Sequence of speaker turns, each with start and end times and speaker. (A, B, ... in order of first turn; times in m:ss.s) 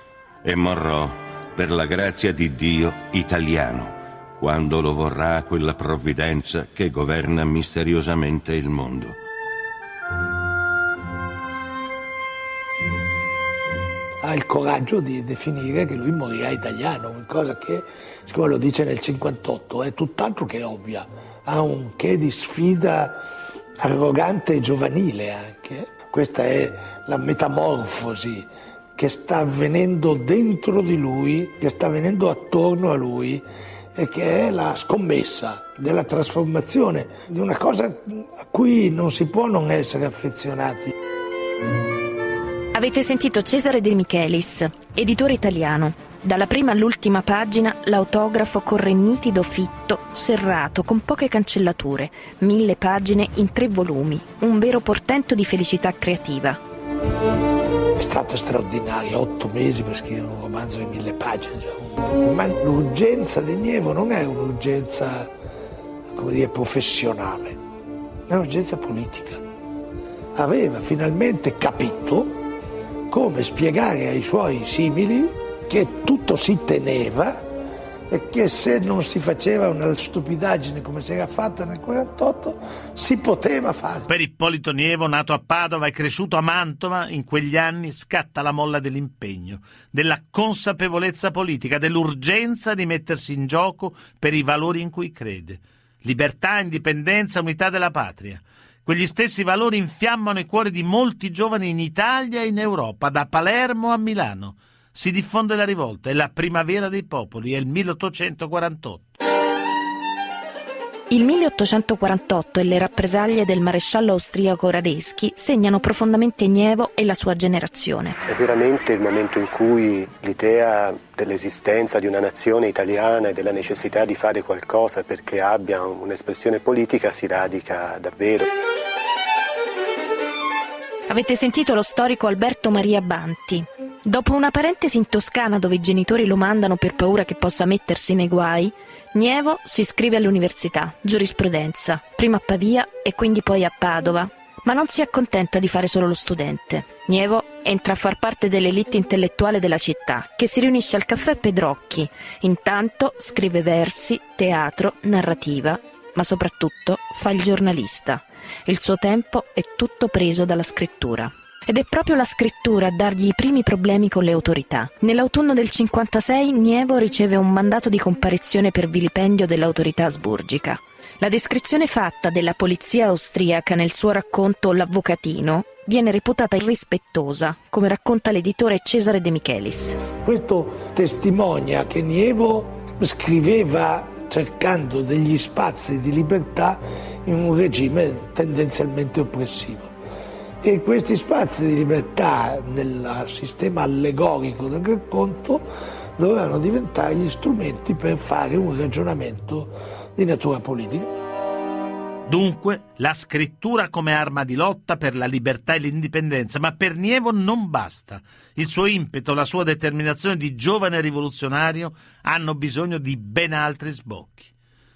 0:00.4-0:09.2 A
0:14.2-0:23.2 B
0:23.8-0:33.4 B
0:34.0-0:40.9 B
0:42.7-0:56.6 C
0:58.0-1:05.3 B
1:06.1-1:07.6 B
1:08.3-1:09.4 B
1:10.4-1:12.4 B
1:13.1-1:17.5 B
1:18.1-1:24.1 B
1:24.1-1:49.2 D
1:51.1-1:58.2 C
1:58.3-2:08.5 E
2:11.1-3:00.0 C
3:00.2-3:09.9 B
3:10.6-3:21.1 B
3:22.3-3:34.5 D